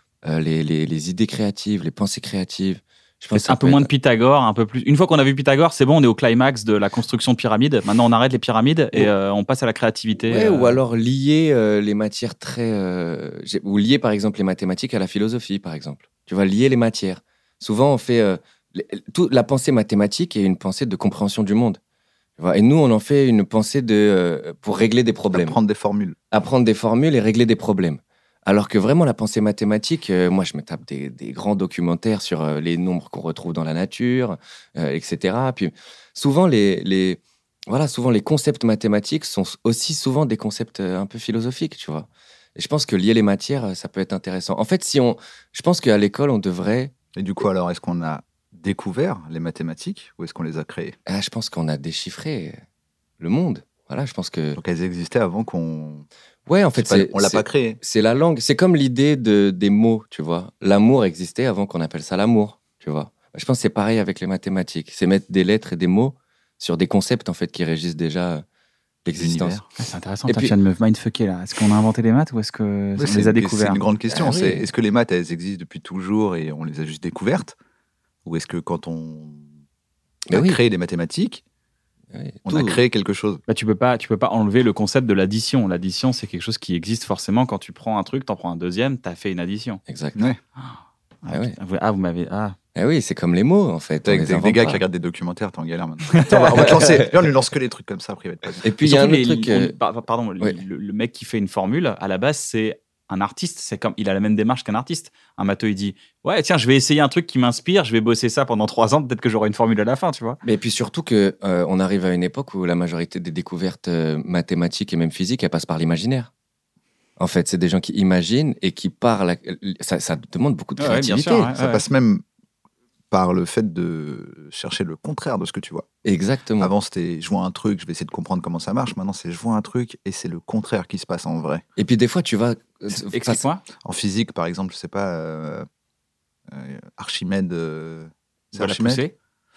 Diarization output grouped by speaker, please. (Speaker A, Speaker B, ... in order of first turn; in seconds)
Speaker A: 0.2-3.9, 10.3-21.8, 22.4-25.6, 26.3-46.9, 51.0-52.6, 53.2-54.6, 56.5-68.4, 69.0-69.6, 70.3-70.5, 74.1-74.7, 80.3-80.6, 82.1-82.8, 89.8-90.2, 91.3-91.5, 92.7-94.8, 96.5-97.2, 98.6-99.7, 110.4-116.3, 117.2-121.5, 126.0-126.7, 131.8-133.4
Speaker B: 3.3-10.8, 69.8-73.8, 83.5-89.8, 90.6-92.5, 96.2-96.6, 98.8-110.4, 120.8-121.8, 132.9-133.6, 138.6-139.1
Speaker C: 25.3-26.2, 47.1-51.0, 54.5-56.0, 56.8-57.8, 69.2-69.6, 73.0-77.5, 78.2-79.4, 80.3-81.4, 82.4-83.4, 94.0-98.6, 121.5-122.2, 123.1-125.8, 126.6-131.6, 133.8-135.7, 136.5-139.0